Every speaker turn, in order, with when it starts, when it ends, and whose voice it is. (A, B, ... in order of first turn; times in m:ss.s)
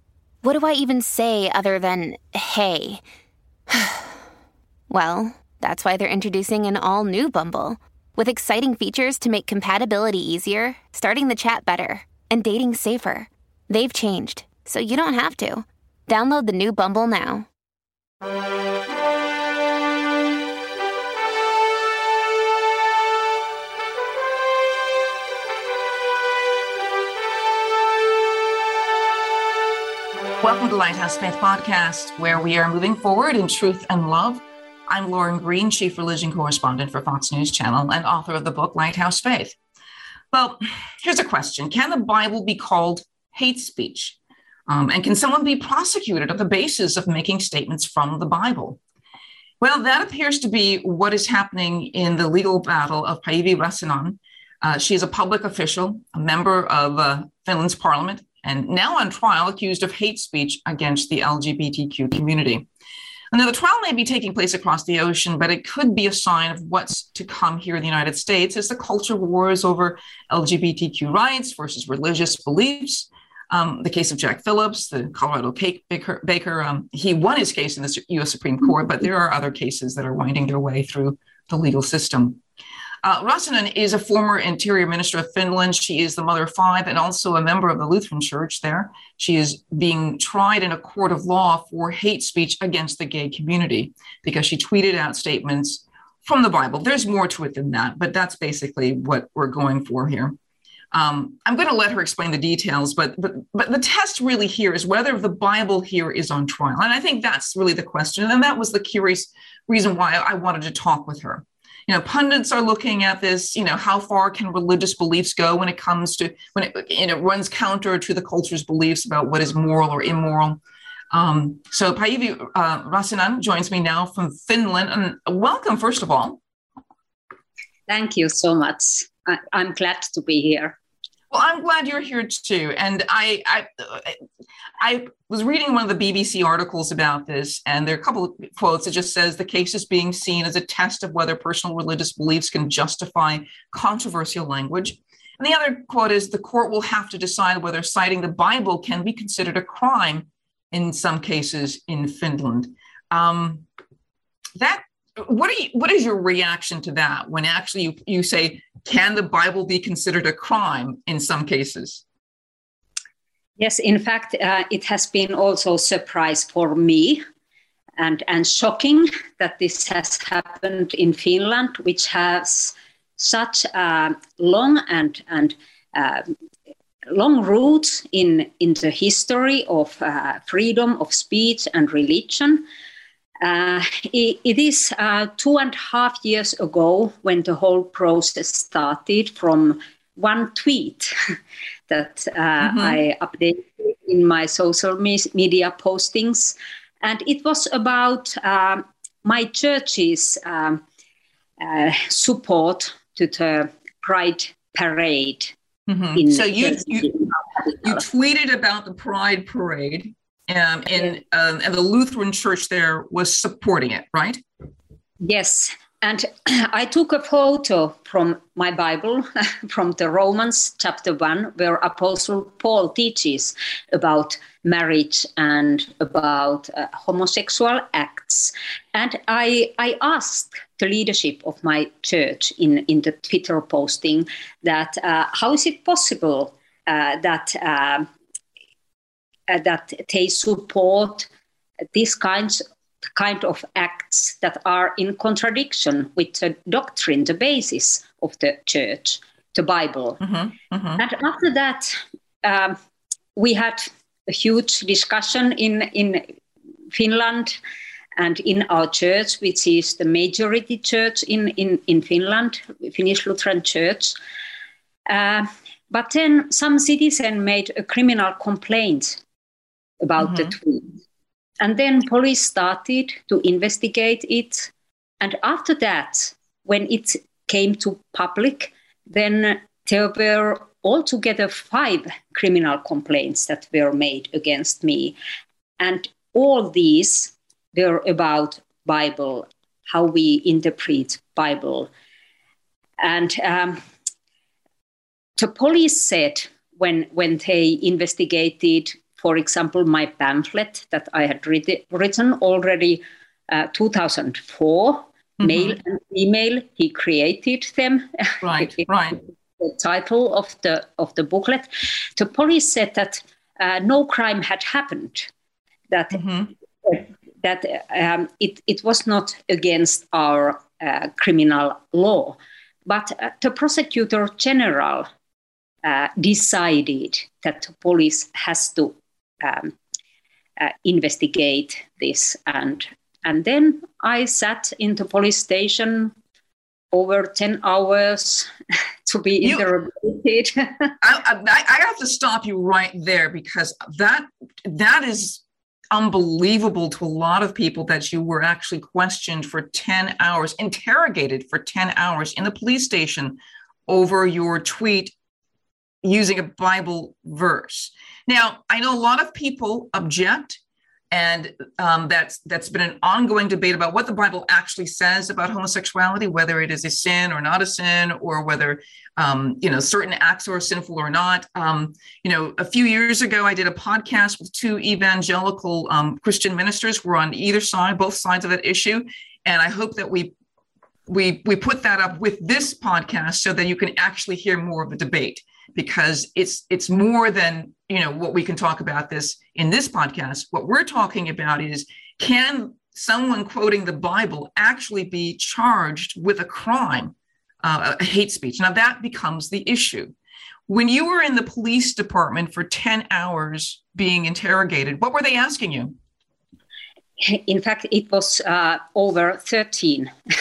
0:00.4-0:03.0 A
0:03.7-0:04.0 A
0:04.9-0:17.4 A
0:30.4-0:39.6 B
0:40.3-0:44.2 B
0:44.7-0:48.8 B
0:49.6-1:02.7 B
1:03.3-1:22.4 B
1:23.0-1:40.4 B
1:40.9-2:00.6 B
2:01.1-2:06.4 B
2:07.9-2:10.8 C
2:11.3-2:14.2 B
2:14.8-2:33.6 B
2:34.6-2:42.0 B
2:43.6-2:47.2 C
2:48.0-2:56.3 C
2:57.1-3:02.6 C
3:03.4-3:11.1 C
3:11.9-3:20.8 C
3:12.6-3:13.0 B
3:21.6-3:25.5 C
3:25.9-3:27.2 B
3:26.1-3:28.0 C
3:27.8-3:34.4 B
3:35.2-3:58.1 C
3:59.5-4:01.3 C
4:01.9-4:02.6 C
4:03.2-4:10.2 C
4:10.2-4:11.0 B
4:11.0-4:12.8 C
4:13.4-4:16.2 C
4:16.9-4:17.6 C
4:18.2-4:24.2 C
4:25.1-4:29.2 C
4:30.0-4:31.0 C
4:30.2-4:30.5 B
4:31.6-4:45.2 C
4:45.8-4:51.9 C
4:53.0-4:53.8 C
4:55.4-5:08.8 C
5:05.4-5:05.8 B
5:08.4-5:09.2 B
5:09.6-5:15.3 C
5:15.9-5:16.2 C
5:16.1-5:16.5 B
5:16.8-5:25.1 C
5:25.8-5:29.7 C
5:30.6-5:36.1 C
5:36.9-5:38.5 C
5:39.1-5:40.9 C
5:41.0-5:55.1 B
5:56.0-6:00.6 B
6:01.1-6:20.3 B
6:21.1-6:40.1 B
6:40.7-6:45.9 B
6:47.2-6:50.1 C